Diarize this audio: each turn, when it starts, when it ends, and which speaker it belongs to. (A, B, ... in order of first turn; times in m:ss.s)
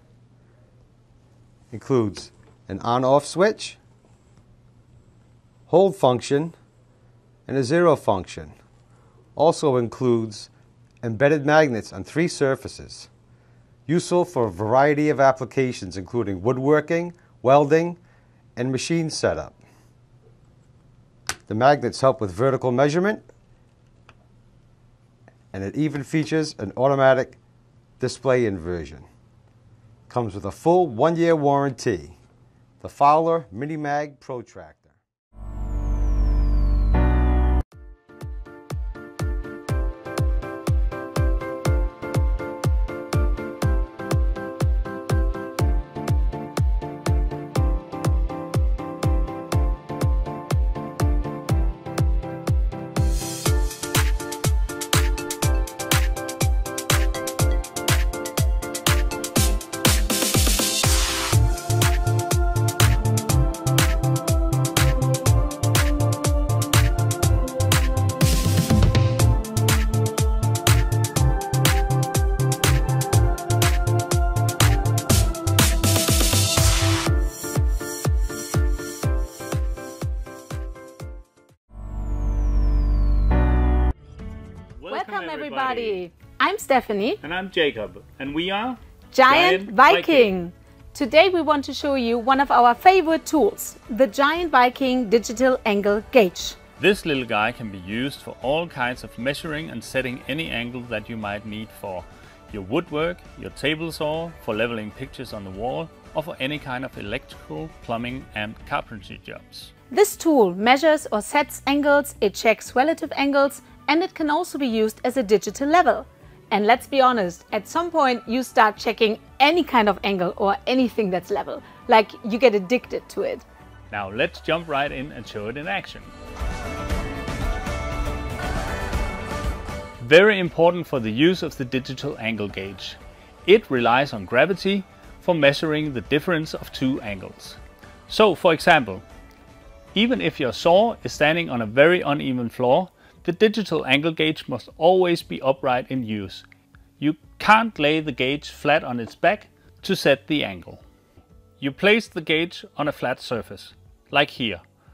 0:01.7-0:03.8 A
0:05.7-0:06.5 A
0:07.5-0:08.5 A
0:09.4-0:10.5 A
0:11.0-0:13.1 A
0:13.9-0:18.0 A
0:18.6-0:19.6 A
0:21.5-0:23.2 A
0:25.5-0:27.4 A
0:28.0-0:29.0 A
0:30.1-0:32.2 A
0:32.8-0:35.0 A
1:24.7-1:26.0 B
1:24.9-1:27.2 C
1:27.2-1:30.3 B
1:29.1-1:36.6 C
1:36.8-1:49.7 B
1:49.9-2:03.4 C
2:03.9-2:06.1 B
2:10.0-2:19.0 B
2:19.9-2:26.4 B
2:27.0-2:30.8 B
2:31.6-2:34.6 B